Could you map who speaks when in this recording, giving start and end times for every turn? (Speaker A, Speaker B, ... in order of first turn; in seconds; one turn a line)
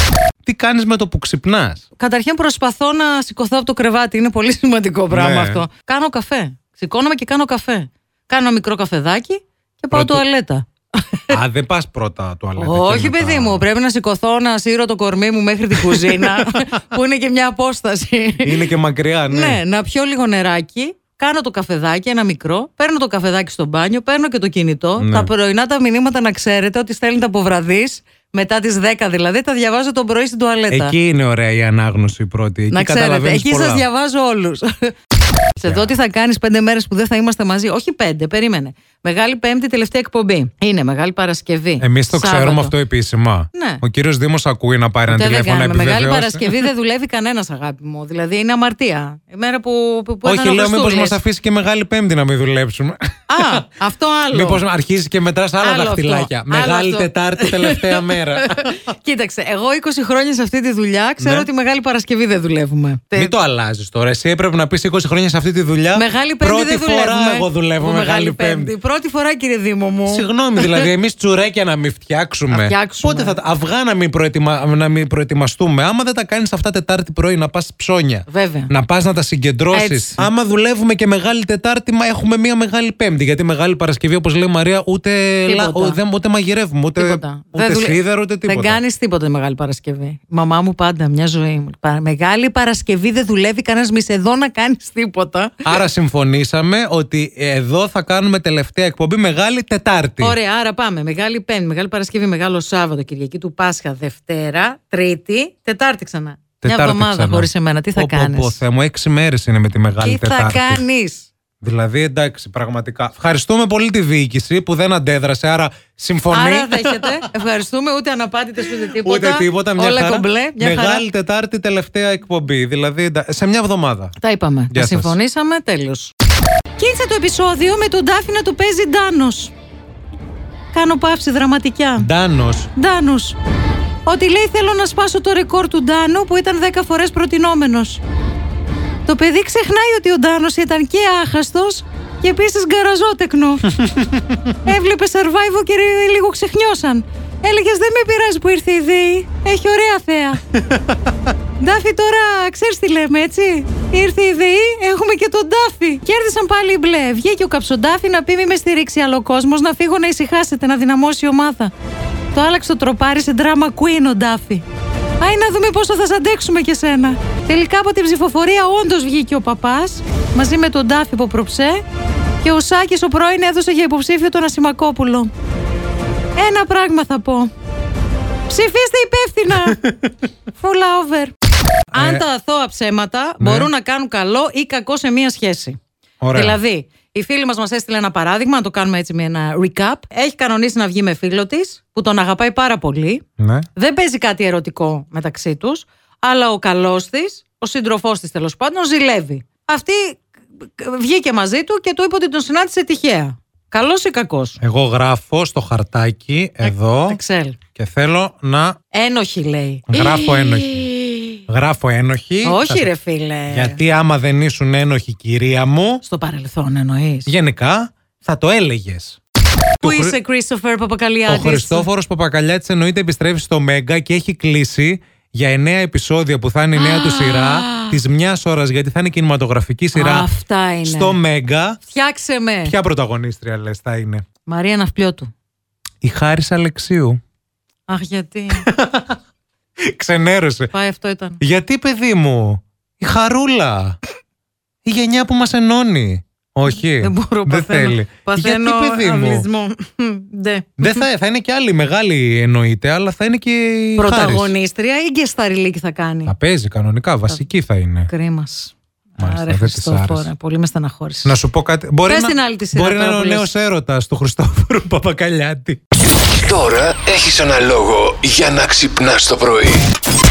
Speaker A: 0.4-1.8
Speaker B: 2.0-11.4
Speaker A: 5.1-5.6
Speaker A: 9.9-10.2
Speaker A: 11.3-13.7
Speaker B: 12.6-18.6
Speaker A: 15.8-16.6
Speaker A: 18.4-19.6
Speaker B: 19.3-30.9
Speaker A: 25.0-25.3
Speaker A: 30.7-33.9
Speaker B: 32.7-35.0
Speaker B: 35.5-42.7
Speaker A: 35.6-35.9
Speaker A: 41.8-46.7
Speaker B: 43.5-43.8
Speaker B: 45.1-51.2
Speaker A: 50.2-53.7
Speaker B: 53.3-54.6
Speaker A: 54.3-58.8
Speaker B: 55.6-63.3
Speaker A: 61.2-61.5
Speaker A: 63.1-68.7
Speaker B: 65.9-70.9
Speaker A: 70.1-88.8
Speaker B: 72.5-73.3
Speaker B: 78.3-78.7
Speaker B: 79.7-80.3
Speaker B: 85.5-86.0
Speaker B: 87.0-95.7
Speaker A: 95.6-100.4
Speaker B: 100.2-108.6
Speaker A: 106.6-110.8
Speaker B: 110.0-111.3
Speaker A: 111.6-117.2
Speaker B: 116.3-121.0
Speaker A: 119.0-124.1
Speaker B: 124.2-126.1
Speaker A: 124.7-125.2
Speaker B: 126.8-129.5
Speaker B: 130.7-132.1
Speaker A: 132.0-132.7
Speaker B: 132.8-133.4
Speaker B: 134.1-138.0
Speaker B: 139.1-143.8
Speaker A: 143.7-144.5
Speaker B: 144.6-150.4
Speaker A: 150.7-150.9
Speaker B: 151.6-161.7
Speaker B: 162.3-164.6
Speaker B: 165.2-171.8
Speaker B: 172.4-175.3
Speaker B: 176.3-177.5
Speaker B: 178.5-179.8
Speaker A: 179.6-180.1
Speaker B: 180.5-181.3
Speaker A: 181.9-182.2
Speaker B: 181.9-185.8
Speaker A: 183.4-183.7
Speaker A: 186.2-186.6
Speaker B: 186.3-193.2
Speaker A: 193.4-193.7
Speaker B: 193.8-204.6
Speaker A: 204.6-207.2
Speaker B: 206.6-207.6
Speaker A: 207.7-208.8
Speaker B: 208.9-211.4
Speaker A: 209.9-210.9
Speaker A: 211.5-212.9
Speaker B: 212.4-213.8
Speaker A: 213.5-216.0
Speaker B: 216.0-217.3
Speaker A: 217.2-219.2
Speaker A: 219.8-220.2
Speaker B: 219.8-221.9
Speaker A: 221.3-230.3
Speaker B: 226.8-227.9
Speaker B: 229.9-231.2
Speaker A: 230.8-231.8
Speaker B: 231.8-232.7
Speaker A: 232.6-234.2
Speaker B: 234.4-235.3
Speaker A: 236.0-237.2
Speaker B: 237.9-238.7
Speaker A: 238.5-239.2
Speaker A: 239.8-240.7
Speaker B: 240.7-241.4
Speaker A: 241.4-244.0
Speaker A: 244.8-249.5
Speaker B: 246.7-251.0
Speaker A: 250.8-254.5
Speaker B: 254.0-256.3
Speaker A: 256.2-258.1
Speaker B: 258.1-261.4
Speaker A: 259.2-260.3
Speaker A: 261.2-265.8
Speaker B: 262.1-263.5
Speaker C: 266.4-269.8